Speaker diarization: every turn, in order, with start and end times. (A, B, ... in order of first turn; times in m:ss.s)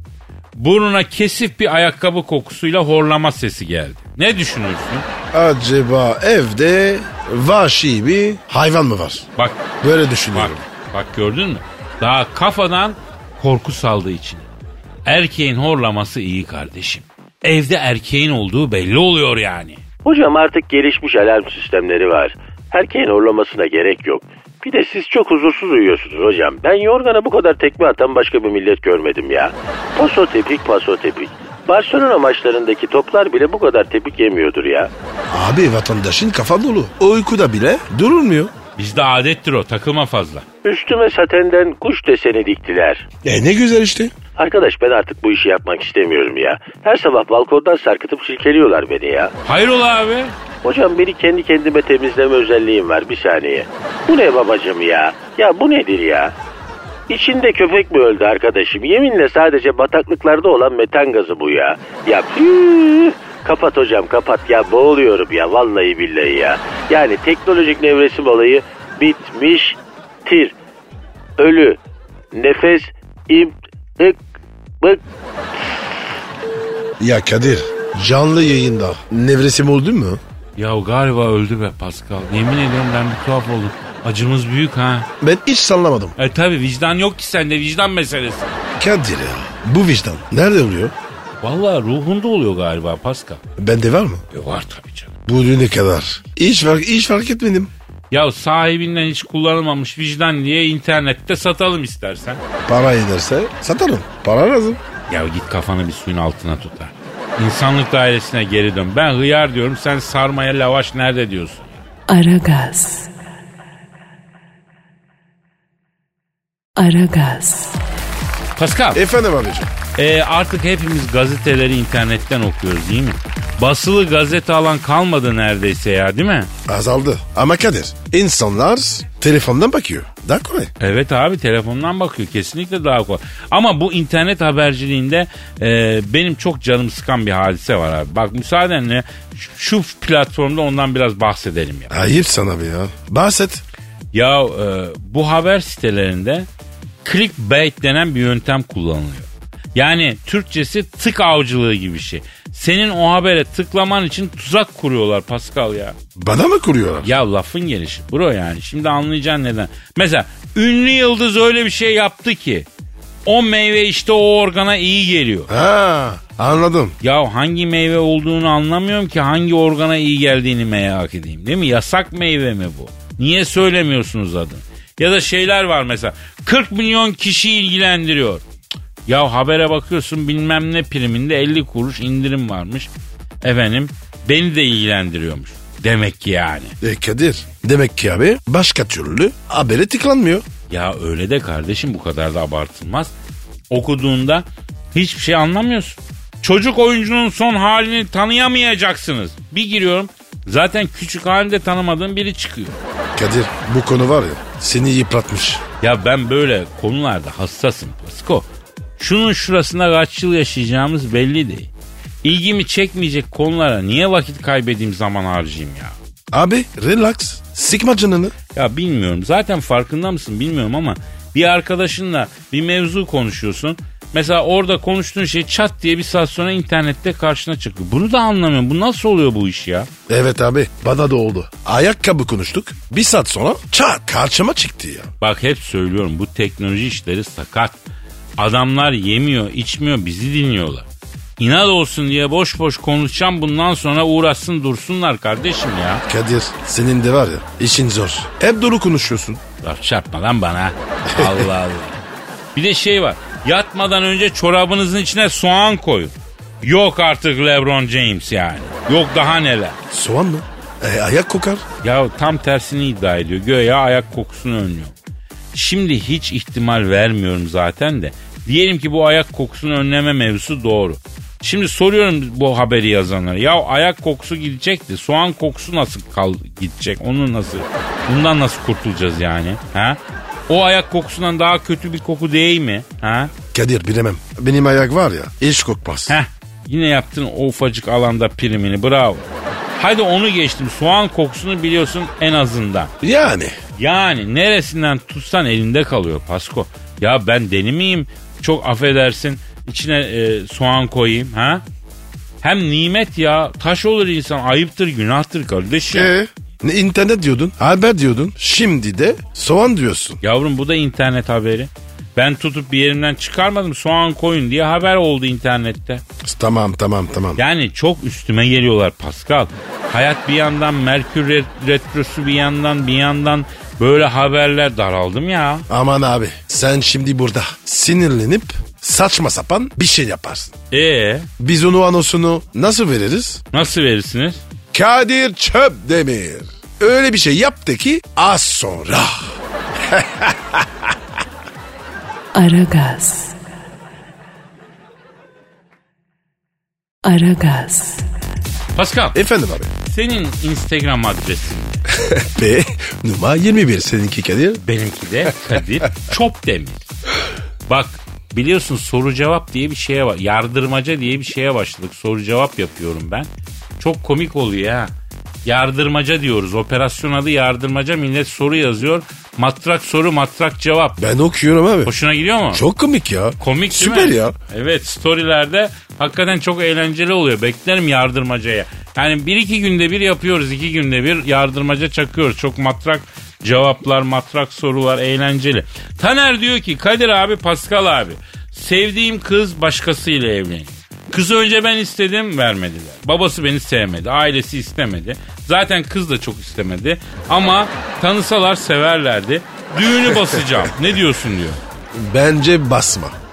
0:00.6-0:05.1 A
0:05.3-0:09.3 B
0:09.4-0:09.6 A
0:09.8-0:10.6 B
0:10.3-0:14.5 A
0:15.1-0:19.8 A
0:20.0-0:34.9 C
0:35.3-0:38.5 B
0:38.8-0:40.5 A
0:40.6-0:43.1 C
0:43.2-0:44.1 B
0:44.4-0:49.3 C
0:49.4-0:50.4 A
0:50.6-0:56.3 C
0:57.1-1:10.6 C
1:11.4-1:11.8 C
1:12.3-1:14.2 C
1:17.0-1:20.2 B
1:20.6-1:25.1 A
1:25.2-1:26.2 B
1:26.2-1:28.6 A
1:28.8-1:30.9 B
1:31.4-1:33.4 A
1:33.6-1:34.2 B
1:34.3-1:35.2 A
1:35.3-1:37.7 B
1:38.1-1:42.4 A
1:42.7-1:44.8 B
1:45.1-1:51.8 A
1:52.1-1:53.1 D
1:56.8-1:57.8 D
1:58.6-1:59.0 A
1:58.9-1:59.7 B
2:00.0-2:06.5 A
2:06.7-2:10.7 B
2:10.8-2:21.9 A
2:21.9-2:23.6 B
2:24.1-2:26.5 A
2:27.0-2:36.0 A
2:36.2-2:37.1 B
2:37.0-2:42.7 A
2:43.3-2:45.5 A
2:45.5-2:47.0 B
2:47.0-2:58.4 A
2:59.1-3:02.9 A
3:03.4-3:06.8 A
3:06.8-3:10.4 B
3:10.7-3:13.1 A
3:13.7-3:22.8 A
3:23.2-3:25.6 B
3:25.8-3:28.5 A
3:29.0-3:31.7 A
3:32.2-3:36.0 A
3:36.3-3:38.4 B
3:38.5-3:49.9 A
3:50.1-3:55.1 B
3:55.2-3:57.8 A
3:58.4-4:00.9 A
4:01.4-4:06.0 A
4:06.1-4:09.4 B
4:09.6-4:12.0 A
4:11.1-4:11.5 B
4:12.6-4:19.8 A
4:19.9-4:21.6 B
4:21.8-4:24.9 A
4:25.5-4:43.3 A
4:43.5-4:46.2 B
4:46.1-4:52.9 A
4:53.0-4:53.6 B
4:53.8-5:01.6 A
5:02.4-5:06.1 A
5:05.9-5:10.2 B
5:10.2-5:16.0 A
5:16.2-5:17.4 B
5:17.4-5:25.7 A
5:25.7-5:30.6 B
5:30.7-5:31.3 A
5:31.4-5:33.4 B
5:33.5-5:34.4 A
5:34.7-5:40.7 B
5:42.3-5:43.4 D
5:47.0-5:48.1 D
5:48.8-5:49.2 A
5:49.1-5:49.7 B
5:49.8-5:51.8 A
5:51.9-5:54.6 B
5:54.6-5:56.9 A
5:57.7-6:04.9 A
6:05.5-6:11.0 A
6:11.0-6:11.9 B
6:11.8-6:12.6 A
6:12.5-6:14.4 B
6:13.4-6:41.6 A
6:41.9-6:43.2 B